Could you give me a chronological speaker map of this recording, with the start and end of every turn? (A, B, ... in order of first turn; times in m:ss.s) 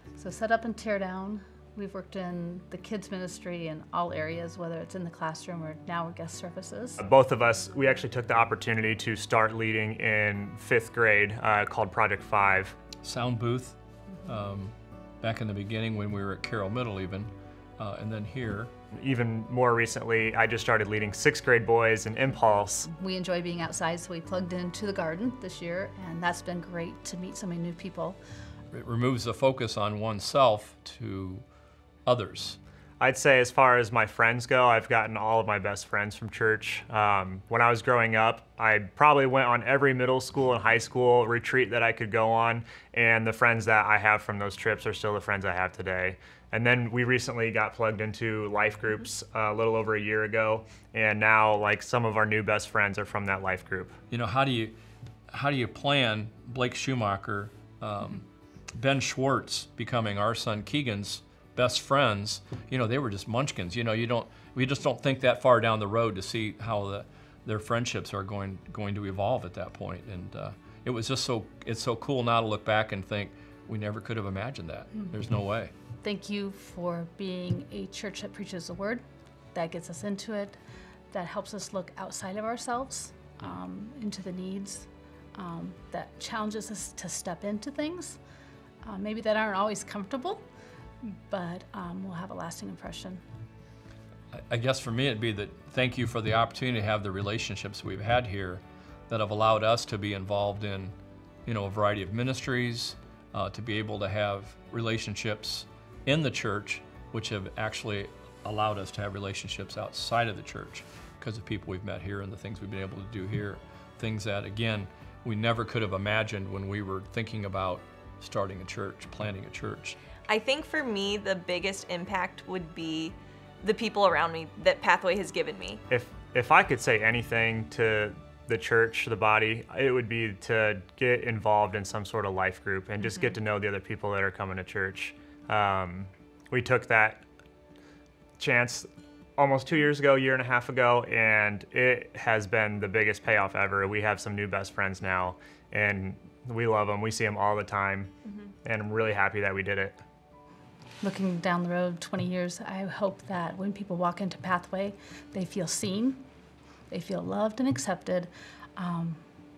0:00.2-0:07.0 A
0:07.0-0:12.8 B
0:13.0-0:18.7 C
0:19.0-0:22.9 B
0:22.8-0:28.2 A
0:28.7-0:31.4 C
0:32.1-0:32.6 C
0:33.0-0:54.0 B
0:54.1-0:54.8 C
0:55.3-1:15.7 C
1:16.0-1:19.0 A
1:19.5-1:20.6 A
1:21.1-1:28.2 A
1:28.8-1:30.4 A
1:31.0-1:33.2 A
1:34.3-1:40.9 C
1:41.5-2:00.0 C
2:00.3-2:05.8 D
2:05.9-2:17.2 B
2:13.0-2:13.3 D
2:18.4-2:28.1 B
2:28.6-2:30.0 B
2:31.0-2:36.2 A
2:36.9-2:39.2 A